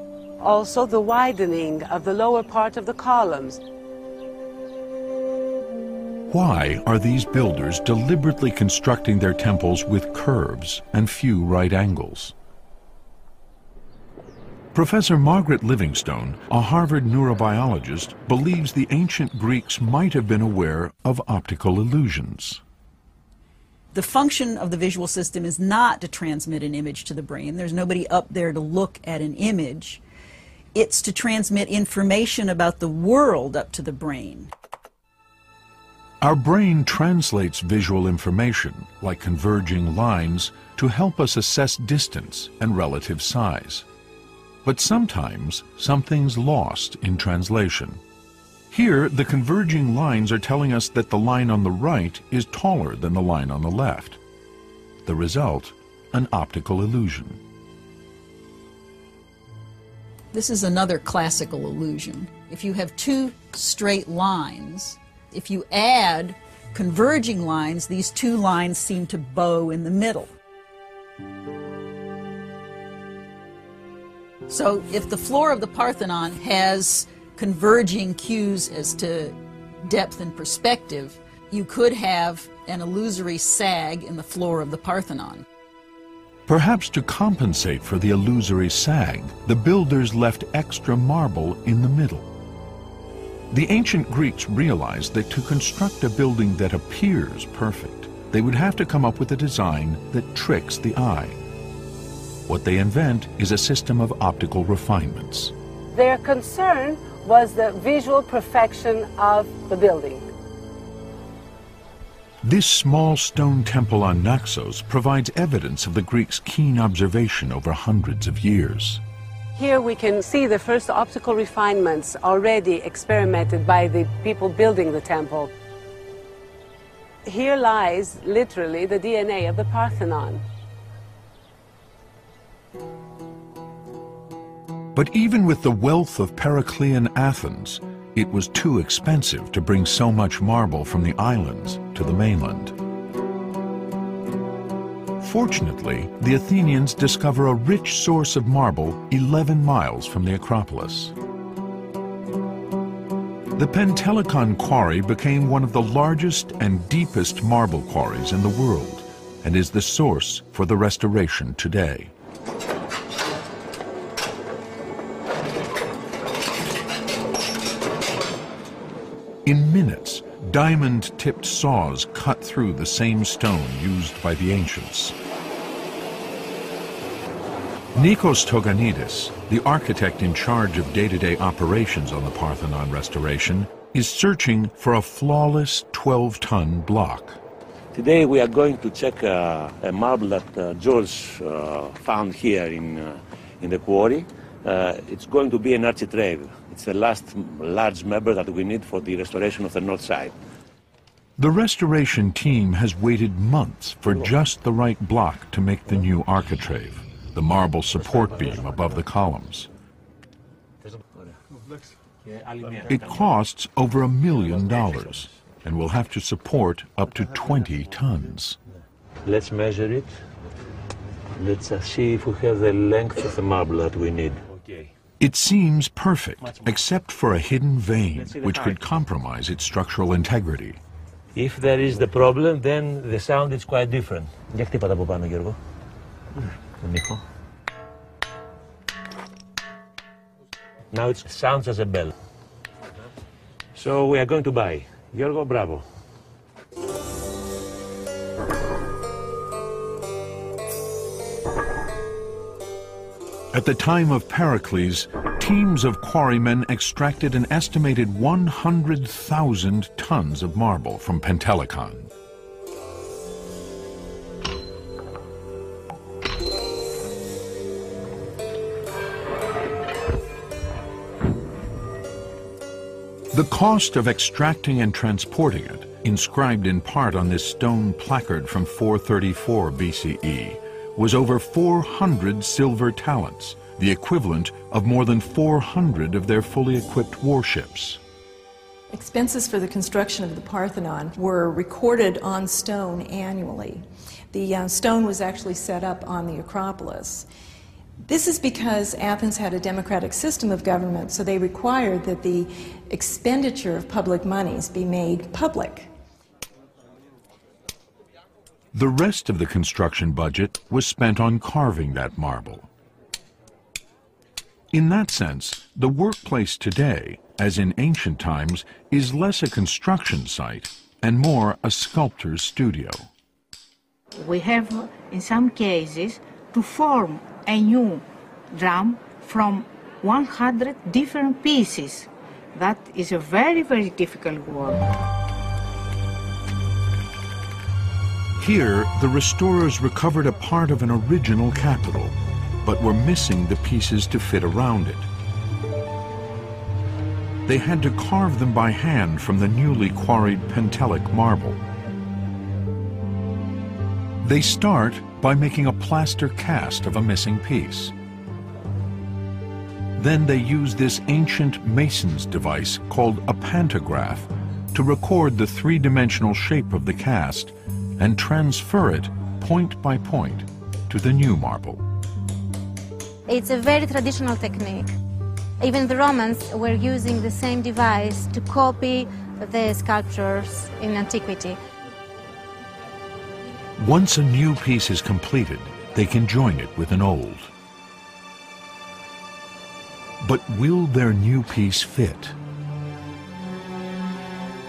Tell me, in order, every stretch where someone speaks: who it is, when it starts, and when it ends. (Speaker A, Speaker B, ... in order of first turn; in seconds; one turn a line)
Speaker A: 0.4-3.6
Speaker B: 6.3-12.3
Speaker B: 14.7-22.6
Speaker C: 23.9-30.0
Speaker C: 30.7-34.5
Speaker B: 36.2-43.9
Speaker B: 44.6-48.0
Speaker B: 48.7-54.2
Speaker B: 55.0-57.4
Speaker C: 60.3-70.3
Speaker C: 74.5-85.4
Speaker B: 86.5-92.3
Speaker B: 93.5-101.4
Speaker B: 102.5-105.5
Speaker A: 105.9-110.2
Speaker B: 112.4-119.0
Speaker A: 119.6-125.5
Speaker A: 127.2-130.4
Speaker B: 134.9-142.7
Speaker B: 145.2-151.1
Speaker B: 153.6-162.1
Speaker B: 169.4-175.2
Speaker B: 177.9-187.4
Speaker D: 187.9-200.3
Speaker B: 201.4-209.7
Speaker D: 208.0-209.0
Speaker D: 210.8-211.3
Speaker D: 212.2-213.2
Speaker B: 212.9-218.6
Speaker D: 214.7-215.0
Speaker D: 219.2-220.2
Speaker D: 221.4-224.9
Speaker B: 225.2-230.8
Speaker D: 228.2-228.8
Speaker D: 231.3-235.6
Speaker D: 236.8-237.2
Speaker D: 240.9-242.1
Speaker D: 243.7-245.9
Speaker B: 253.5-262.1
Speaker B: 273.3-288.0
Speaker E: 288.9-297.3
Speaker E: 298.1-305.9
Speaker B: 308.7-312.7
Speaker B: 314.7-323.1
Speaker F: 324.2-334.9
Speaker B: 338.4-345.1
Speaker B: 347.5-351.6
Speaker B: 354.2-357.9
Speaker B: 360.0-371.8
Speaker G: 373.3-374.9
Speaker G: 375.6-381.6
Speaker B: 383.8-387.5
Speaker B: 390.2-392.4